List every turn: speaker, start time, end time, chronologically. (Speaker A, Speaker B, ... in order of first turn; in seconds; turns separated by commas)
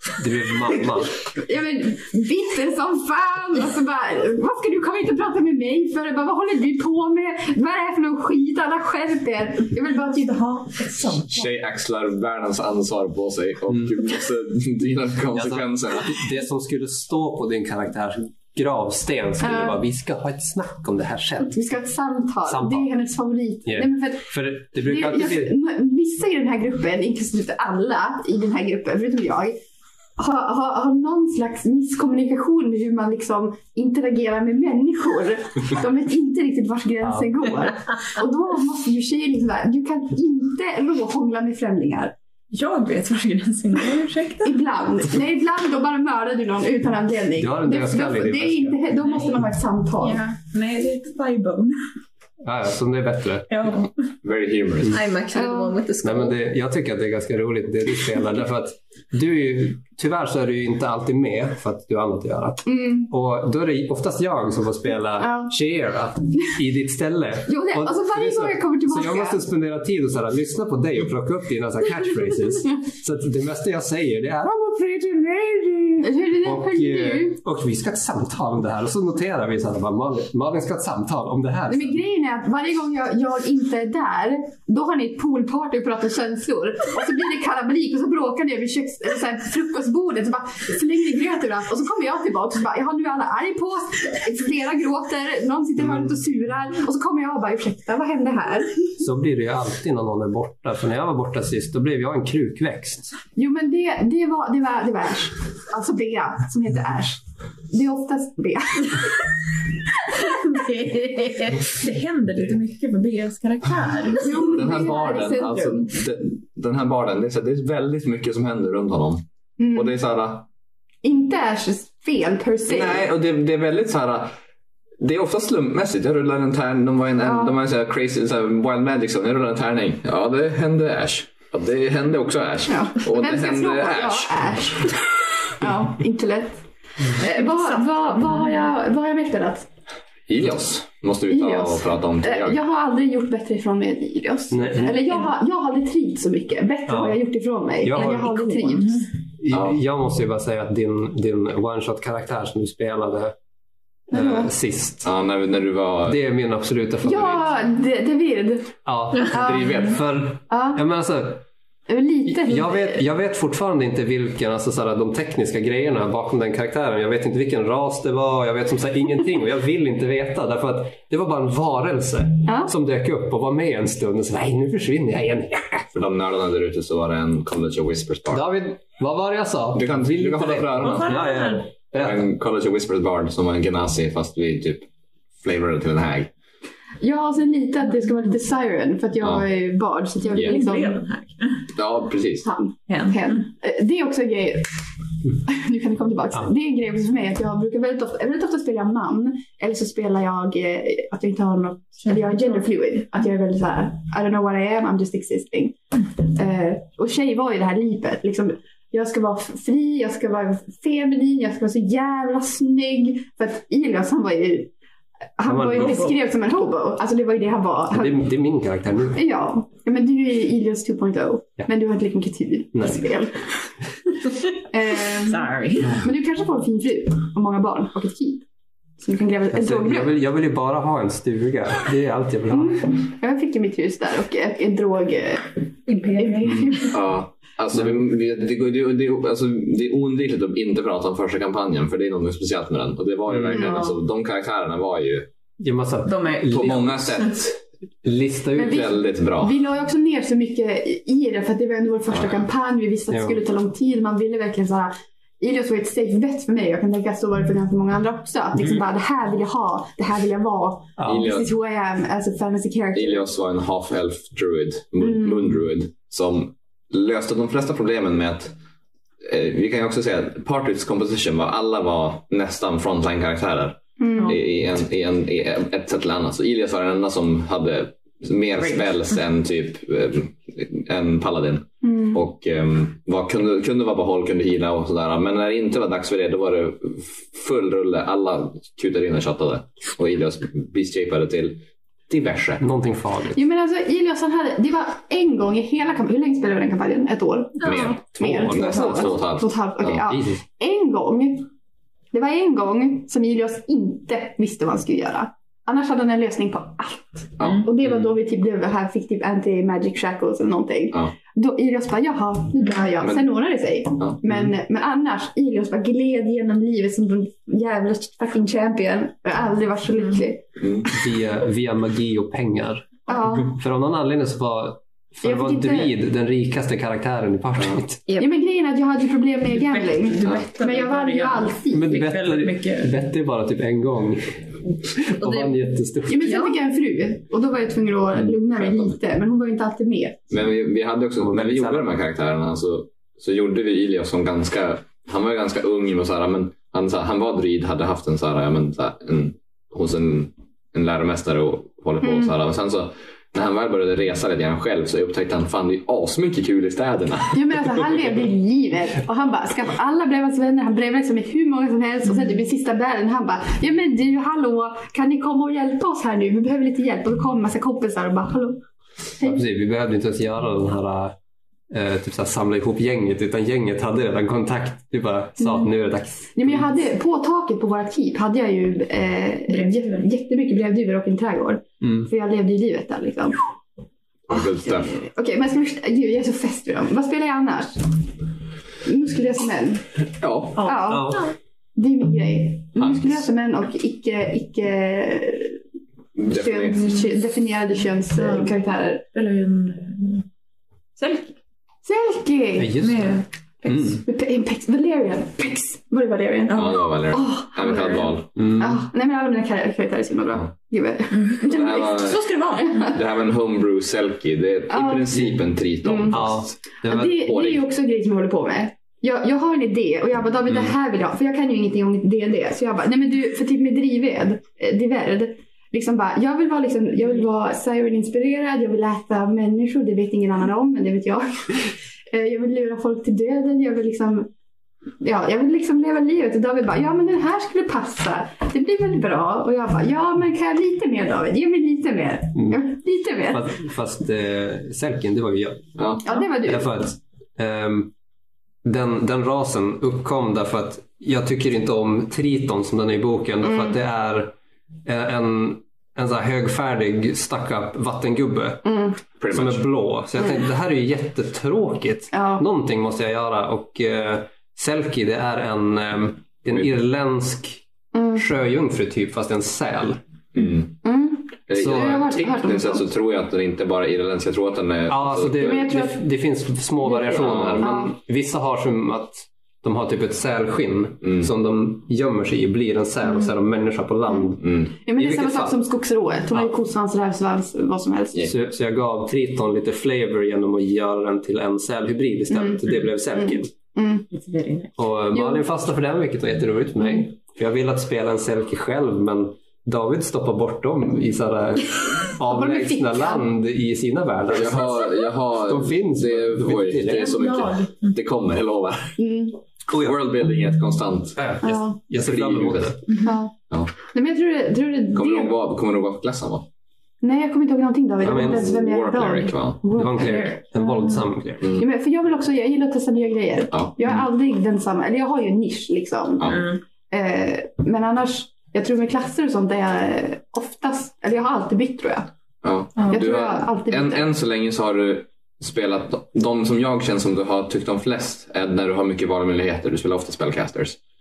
Speaker A: 0.2-1.1, Speaker B: 0.4-10.5, Speaker C: 10.0-11.5, Speaker D: 11.2-16.2, Speaker A: 13.7-13.9, Speaker A: 15.3-21.5, Speaker B: 19.4-19.8, Speaker B: 21.4-29.6, Speaker A: 22.4-22.9, Speaker A: 23.6-25.5, Speaker B: 30.2-42.1, Speaker A: 37.0-37.3, Speaker C: 42.5-44.5, Speaker B: 44.4-50.2, Speaker A: 47.4-48.8, Speaker C: 49.0-49.4, Speaker C: 50.0-51.8, Speaker A: 52.4-53.6, Speaker C: 53.5-53.9, Speaker D: 54.2-55.0, Speaker E: 54.9-56.3, Speaker B: 55.3-55.8, Speaker A: 56.0-82.0, Speaker B: 62.6-63.1, Speaker B: 65.2-65.5, Speaker B: 67.5-69.4, Speaker B: 76.0-77.4, Speaker B: 81.7-98.7, Speaker A: 95.8-96.1, Speaker A: 99.0-103.1, Speaker B: 103.3-109.1, Speaker C: 110.2-114.8, Speaker B: 114.2-115.9, Speaker D: 114.4-120.4, Speaker B: 119.6-119.9, Speaker B: 121.0-123.1, Speaker D: 122.7-124.3, Speaker D: 125.0-135.0, Speaker B: 127.2-127.5, Speaker B: 132.7-135.0, Speaker B: 135.5-139.7, Speaker C: 137.2-138.6, Speaker D: 140.3-142.6, Speaker B: 141.3-149.1, Speaker A: 144.5-145.1, Speaker A: 146.9-147.2, Speaker A: 147.8-148.3, Speaker C: 147.9-149.1, Speaker A: 149.4-153.3, Speaker B: 154.1-154.5, Speaker A: 154.1-155.1, Speaker D: 155.0-156.2, Speaker A: 156.1-157.5, Speaker B: 157.0-158.7, Speaker A: 158.8-161.4, Speaker B: 159.3-159.8, Speaker D: 159.3-160.0, Speaker B: 160.5-160.8, Speaker B: 161.9-163.0, Speaker A: 162.3-175.9, Speaker B: 172.4-172.7, Speaker D: 175.9-178.4, Speaker A: 178.3-182.2, Speaker D: 179.7-181.2, Speaker C: 180.8-181.7, Speaker D: 181.9-184.9, Speaker D: 185.4-186.3, Speaker B: 187.0-191.0, Speaker C: 190.3-191.7, Speaker D: 191.7-192.5, Speaker B: 192.4-194.7, Speaker C: 192.9-193.4, Speaker B: 195.3-214.7, Speaker C: 202.0-202.6, Speaker B: 215.4-218.2, Speaker A: 215.4-216.0, Speaker C: 215.8-216.2, Speaker A: 217.9-219.2, Speaker B: 219.1-223.5, Speaker A: 222.7-223.1, Speaker B: 224.6-228.4, Speaker C: 225.1-226.0, Speaker B: 229.0-230.2, Speaker A: 229.5-232.8, Speaker B: 232.5-235.5, Speaker C: 235.9-236.9, Speaker B: 236.2-237.0, Speaker D: 236.9-245.3, Speaker A: 243.3-243.6, Speaker B: 243.5-243.9, Speaker A: 245.6-247.4, Speaker C: 246.0-246.9, Speaker D: 246.4-247.6, Speaker A: 248.0-248.9, Speaker B: 248.6-263.3, Speaker D: 248.6-249.6, Speaker A: 253.1-253.4, Speaker A: 261.0-261.4, Speaker D: 261.1-261.5, Speaker D: 262.9-268.5, Speaker B: 265.0-265.4, Speaker D: 269.2-292.6, Speaker B: 274.0-274.4, Speaker C: 278.6-278.9, Speaker B: 281.8-282.2, Speaker A: 292.6-293.4, Speaker B: 293.3-301.5, Speaker D: 297.6-300.0, Speaker A: 298.4-299.0, Speaker A: 300.1-300.4, Speaker B: 302.1-320.4, Speaker D: 307.4-307.9, Speaker D: 320.6-320.9, Speaker A: 320.9-328.0, Speaker B: 323.1-323.6, Speaker B: 325.2-325.9, Speaker B: 328.2-331.9, Speaker C: 329.5-332.9, Speaker A: 331.7-336.4, Speaker E: 335.2-335.6, Speaker B: 336.1-340.2, Speaker E: 336.2-336.6, Speaker D: 340.3-357.8, Speaker A: 341.2-341.9, Speaker B: 352.0-352.3, Speaker B: 357.3-368.6, Speaker A: 369.2-371.1, Speaker A: 371.7-376.7, Speaker B: 376.3-383.4, Speaker C: 379.5-380.0, Speaker A: 381.8-382.1, Speaker D: 384.3-385.0, Speaker B: 384.3-387.8, Speaker B: 388.8-389.8, Speaker D: 390.2-390.6, Speaker C: 390.6-391.3, Speaker B: 390.6-395.6, Speaker A: 390.9-391.2, Speaker D: 392.8-393.2, Speaker D: 396.1-396.8, Speaker B: 396.3-399.0, Speaker C: 398.1-398.6, Speaker C: 399.1-400.2, Speaker C: 401.0-401.4, Speaker B: 401.8-402.8, Speaker A: 402.6-404.0, Speaker C: 402.8-403.2, Speaker B: 403.6-412.1, Speaker C: 406.5-406.8, Speaker D: 406.5-408.4, Speaker A: 408.4-408.8, Speaker C: 411.1-413.0, Speaker D: 411.4-412.3, Speaker B: 412.6-412.9, Speaker D: 412.8-416.6, Speaker B: 414.7-416.3, Speaker A: 416.1-417.2, Speaker B: 416.8-434.3, Speaker D: 417.1-417.6, Speaker B: 435.0-443.5, Speaker A: 442.4-442.6, Speaker A: 443.3-447.9, Speaker D: 445.8-446.1, Speaker B: 446.0-446.7, Speaker A: 448.6-458.7, Speaker B: 453.4-453.7, Speaker B: 458.6-459.0, Speaker D: 459.2-459.6, Speaker A: 459.3-467.6, Speaker B: 462.1-462.4, Speaker B: 467.9-468.2, Speaker A: 468.1-470.0, Speaker D: 470.3-470.7, Speaker B: 470.8-472.9, Speaker D: 471.5-475.7, Speaker A: 471.6-472.1, Speaker A: 474.9-485.6, Speaker B: 475.4-476.0, Speaker B: 476.8-477.9, Speaker D: 477.1-477.7, Speaker D: 481.0-481.3, Speaker B: 483.0-483.3, Speaker D: 484.4-484.7, Speaker B: 484.8-488.3, Speaker A: 488.2-493.5, Speaker B: 492.3-494.1, Speaker C: 494.1-494.7, Speaker A: 494.8-507.2, Speaker B: 495.1-495.4, Speaker B: 502.3-503.2, Speaker D: 504.3-509.0, Speaker C: 507.0-507.9, Speaker B: 509.0-509.4, Speaker A: 509.7-510.1, Speaker D: 509.7-511.4, Speaker A: 511.1-512.8, Speaker B: 511.4-511.8, Speaker D: 512.0-512.9, Speaker B: 513.0-515.3, Speaker D: 514.9-516.5, Speaker B: 517.0-520.6, Speaker D: 518.0-519.6, Speaker A: 518.0-518.5, Speaker A: 519.7-521.6, Speaker C: 520.0-521.0, Speaker B: 521.5-532.1, Speaker C: 526.2-526.6, Speaker D: 532.4-540.8, Speaker B: 532.9-534.1